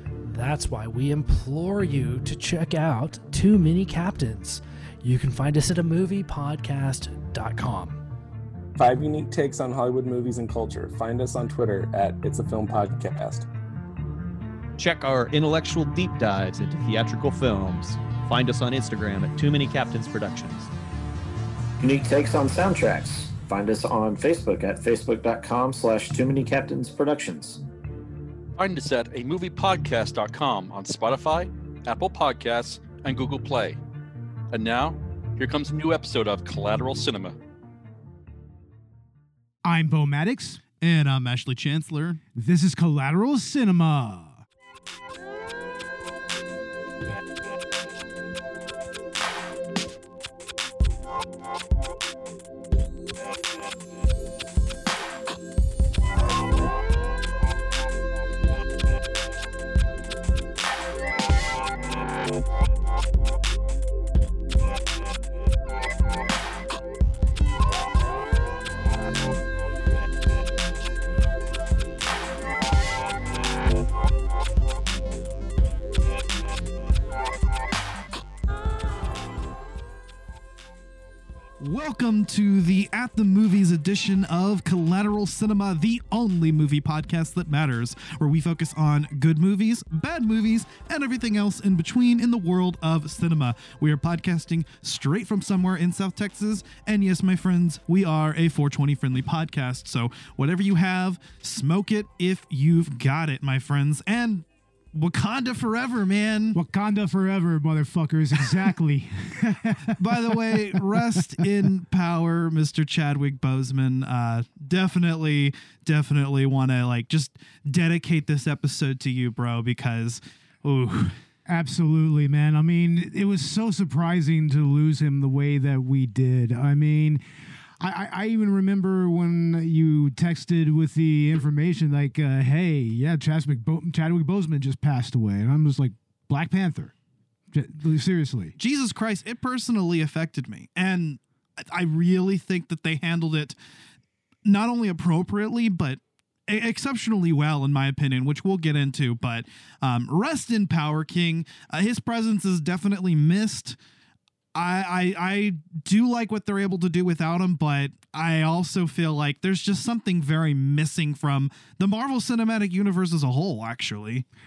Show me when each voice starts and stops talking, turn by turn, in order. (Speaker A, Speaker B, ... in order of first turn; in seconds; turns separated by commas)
Speaker A: 0.2-8.0, Speaker B: 8.8-13.5, Speaker C: 14.8-20.7, Speaker D: 21.8-27.6, Speaker E: 28.6-33.8, Speaker E: 34.5-37.4, Speaker F: 39.6-40.6, Speaker G: 40.8-42.2, Speaker F: 42.3-44.4, Speaker G: 81.6-106.6, Speaker F: 106.5-111.4, Speaker G: 110.0-121.2, Speaker F: 121.5-127.2, Speaker F: 127.8-136.9, Speaker F: 137.5-138.5, Speaker G: 138.6-143.6, Speaker G: 144.4-153.8, Speaker G: 154.6-164.2